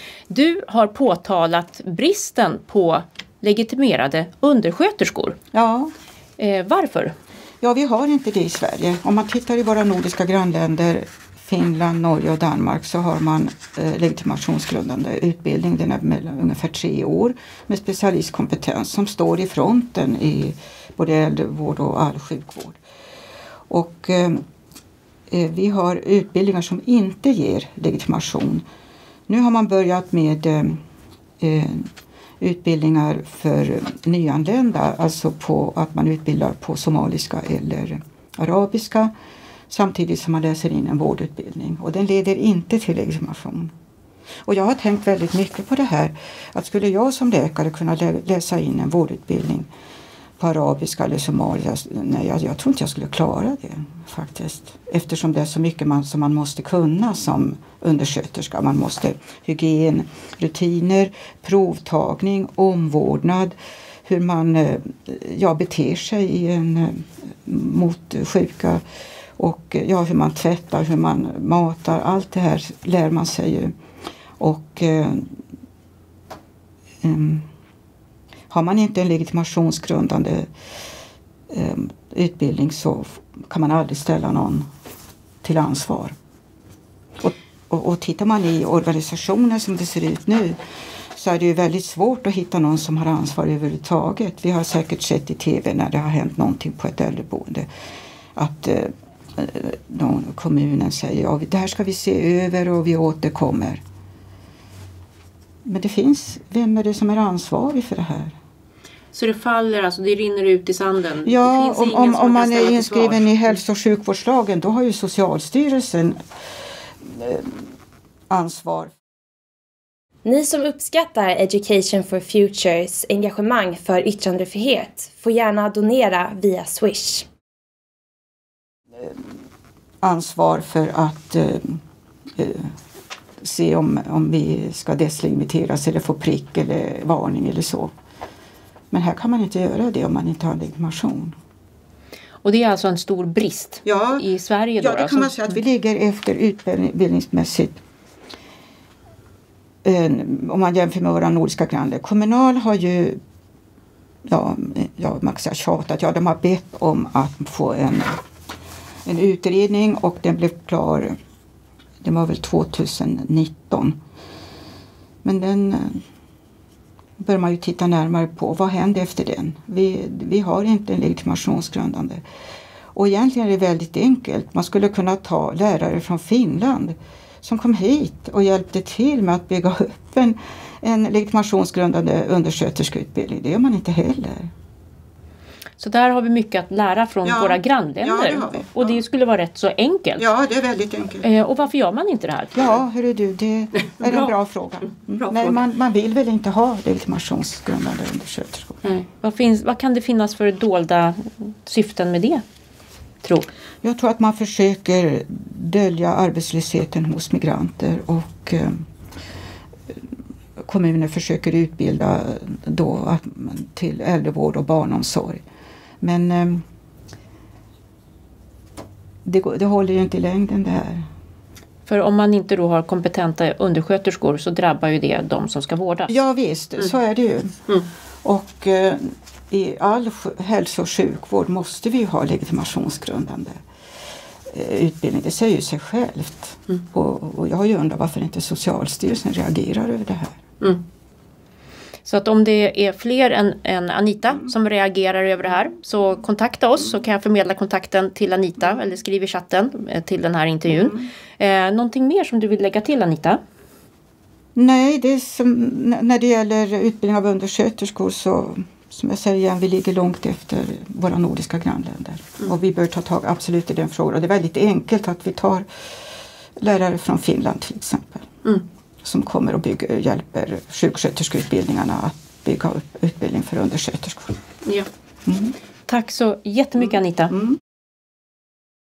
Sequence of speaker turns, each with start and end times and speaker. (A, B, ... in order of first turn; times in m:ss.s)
0:00.3-0:05.4 A
0:05.5-0:05.9 B
0:06.4-0:07.1 A
0:07.6-0:22.8 B
0:23.7-0:24.4 B
0:25.3-0:28.6 B
0:29.3-0:30.8 B
0:31.4-0:31.9 B
0:32.4-0:39.1 B
0:39.7-0:43.7 B
0:44.5-0:49.7 B
0:50.4-1:08.8 B
1:09.4-1:13.7 B
1:14.4-1:15.3 B
1:17.0-1:17.5 B
1:18.5-1:20.5 B
1:21.5-1:24.7 B
1:25.4-1:26.2 B
1:27.2-1:30.6 B
1:31.2-1:37.7 B
1:38.4-1:43.8 B
1:45.6-1:48.4 B
1:49.1-1:53.6 A
1:51.2-1:56.2 B
1:57.0-1:57.6 B
1:58.3-1:58.9 B
2:00.2-2:07.3 C
2:10.0-2:11.8 B
2:12.4-2:12.7 B
2:13.4-2:17.9 B
2:18.9-2:21.4 B
2:22.4-2:25.4 A
2:23.8-2:24.3 B
2:24.8-2:27.8 B
2:29.8-2:33.2 B
2:34.3-2:38.2 B
2:39.1-2:41.2 B
2:42.0-2:44.0 B
2:45.2-2:46.0 B
2:47.2-2:52.2 B
2:53.0-3:04.5 B
3:05.8-3:10.3 A
3:07.2-3:09.0 B
3:10.2-3:11.3 B
3:11.2-3:12.8 A
3:12.5-3:18.8 B
3:13.9-3:14.3 A
3:15.2-3:15.6 A
3:18.8-3:22.4 A
3:23.2-3:23.5 A
3:23.8-3:28.8 B
3:30.6-3:35.4 B
3:36.0-3:36.6 B
3:39.2-3:41.1 B
3:41.9-3:46.2 A
3:46.1-3:47.6 B
3:48.2-3:53.6 B
3:54.5-4:00.4 B
4:02.0-4:13.4 A
4:10.7-4:11.1 B
4:14.6-4:25.7 B
4:26.6-4:28.3 B
4:29.0-4:34.4 B
4:35.3-4:35.6 B
4:35.9-4:37.4 A